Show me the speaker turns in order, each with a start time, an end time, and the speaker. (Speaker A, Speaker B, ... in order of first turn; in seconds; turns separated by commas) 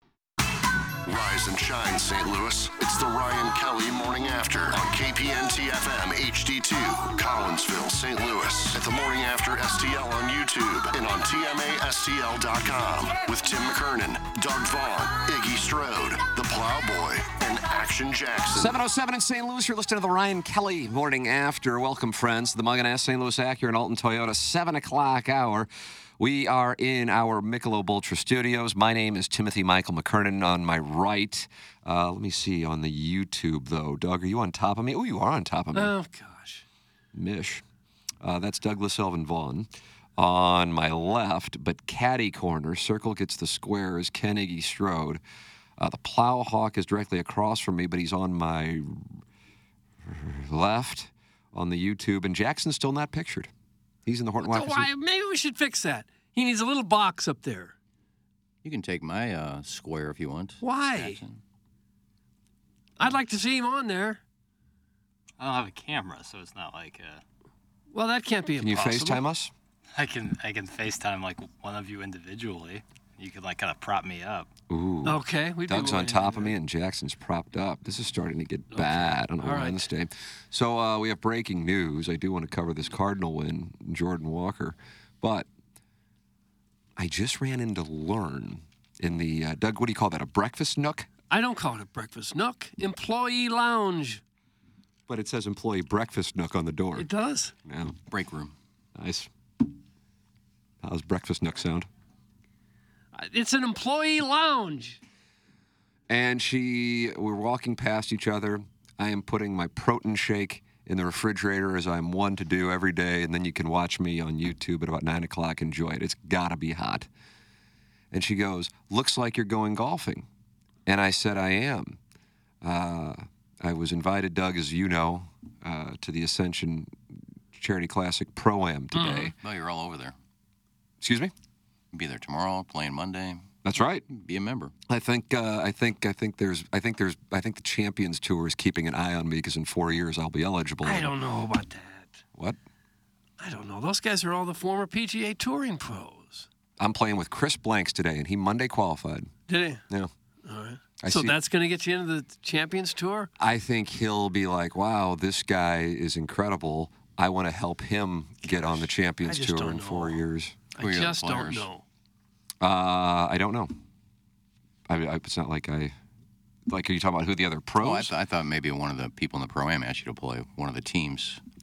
Speaker A: 1.1-18.8, Speaker B: 18.5-35.9, Speaker C: 35.7-36.6, Speaker B: 37.1-37.6, Speaker B: 38.2-45.2, Speaker B: 45.8-49.2, Speaker B: 50.0-53.5, Speaker B: 54.1-54.9, Speaker C: 54.4-57.8, Speaker D: 58.6-61.4, Speaker C: 60.6-61.2, Speaker C: 63.0-64.2, Speaker E: 65.4-67.2, Speaker C: 67.9-69.2, Speaker B: 68.6-69.5, Speaker E: 70.0-74.5, Speaker B: 74.7-85.5, Speaker C: 75.0-76.5, Speaker C: 78.7-79.9, Speaker B: 87.0-91.1, Speaker C: 91.3-94.2, Speaker B: 95.1-97.1, Speaker C: 97.0-97.5, Speaker B: 97.7-98.0, Speaker D: 98.1-98.5, Speaker B: 99.0-99.3, Speaker B: 100.8-101.9, Speaker C: 103.1-105.0, Speaker B: 106.1-117.1, Speaker B: 118.1-120.3, Speaker B: 120.9-122.0, Speaker B: 122.6-127.0, Speaker B: 127.5-129.3, Speaker C: 128.9-129.3, Speaker D: 129.3-130.2, Speaker B: 131.0-131.3, Speaker D: 131.9-133.5, Speaker B: 133.6-134.1, Speaker D: 134.1-134.7, Speaker B: 134.9-141.1, Speaker C: 140.8-142.2, Speaker C: 143.4-146.5, Speaker B: 146.8-149.3, Speaker C: 149.5-149.8, Speaker C: 150.4-153.3, Speaker B: 151.0-151.4, Speaker B: 153.4-160.6, Speaker C: 159.2-160.2, Speaker C: 160.8-161.8, Speaker D: 160.8-161.7, Speaker B: 162.6-163.7, Speaker B: 164.9-165.9, Speaker B: 166.7-168.1, Speaker D: 167.8-171.4